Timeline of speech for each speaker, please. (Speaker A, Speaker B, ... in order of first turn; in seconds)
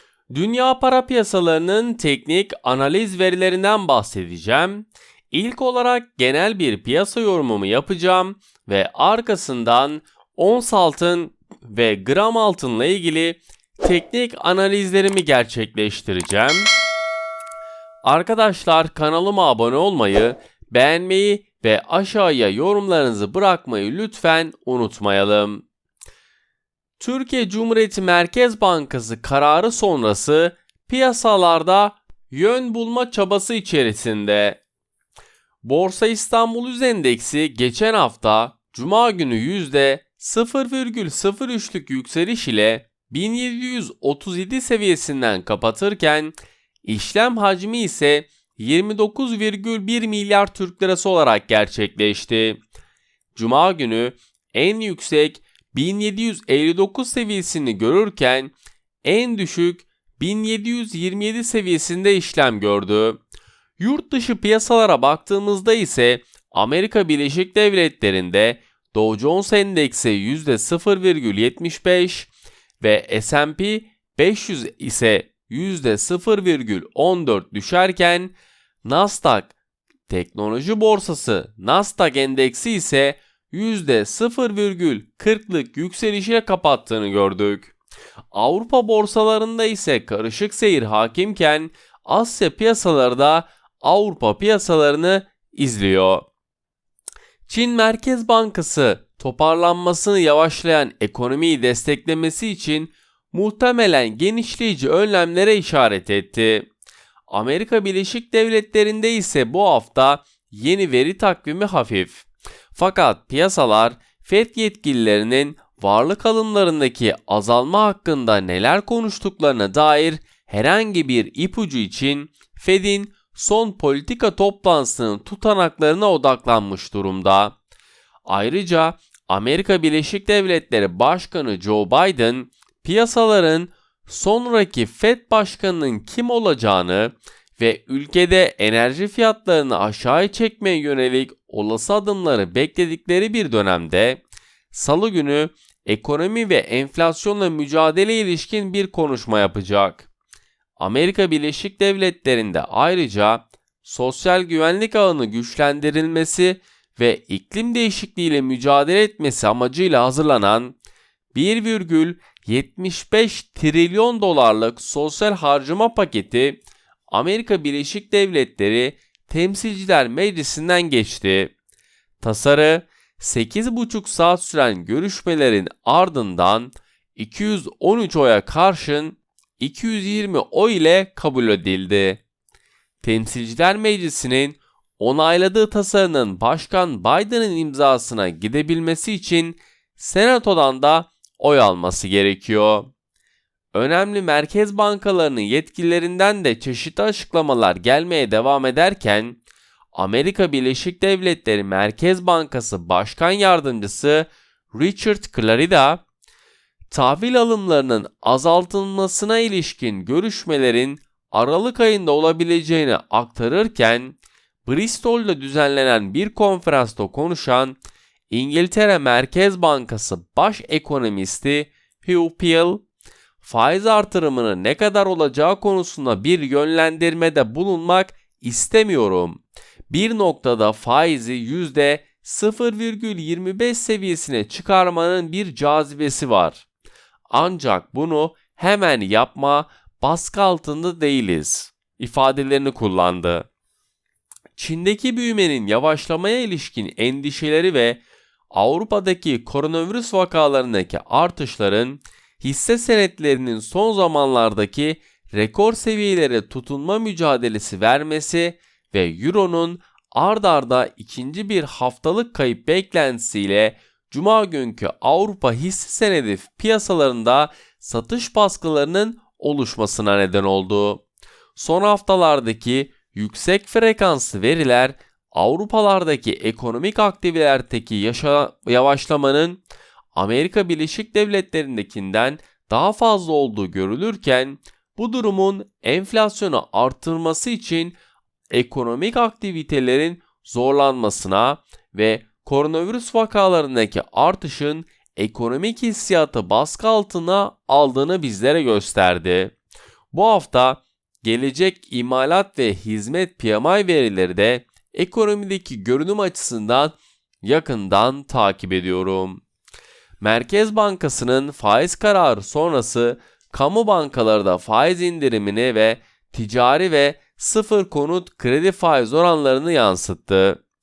Speaker A: 0.3-16.7, 18.0-25.6, 27.0-34.6, 35.6-52.6, 53.3-58.5, 59.0-63.2, 63.8-79.5, 80.1-87.7, 88.3-96.3, 97.5-106.7, 107.3-127.6, 128.3-150.1, 150.8-160.8, 161.3-171.5, 172.2-182.2, 183.0-192.9, 193.7-199.4, 199.9-206.0, 206.9-217.8, 218.3-222.8, 223.4-236.7, 237.3-243.5, 244.6-271.0, 271.6-279.6, 280.1-288.0, 288.5-299.6, 300.1-309.4, 310.2-320.6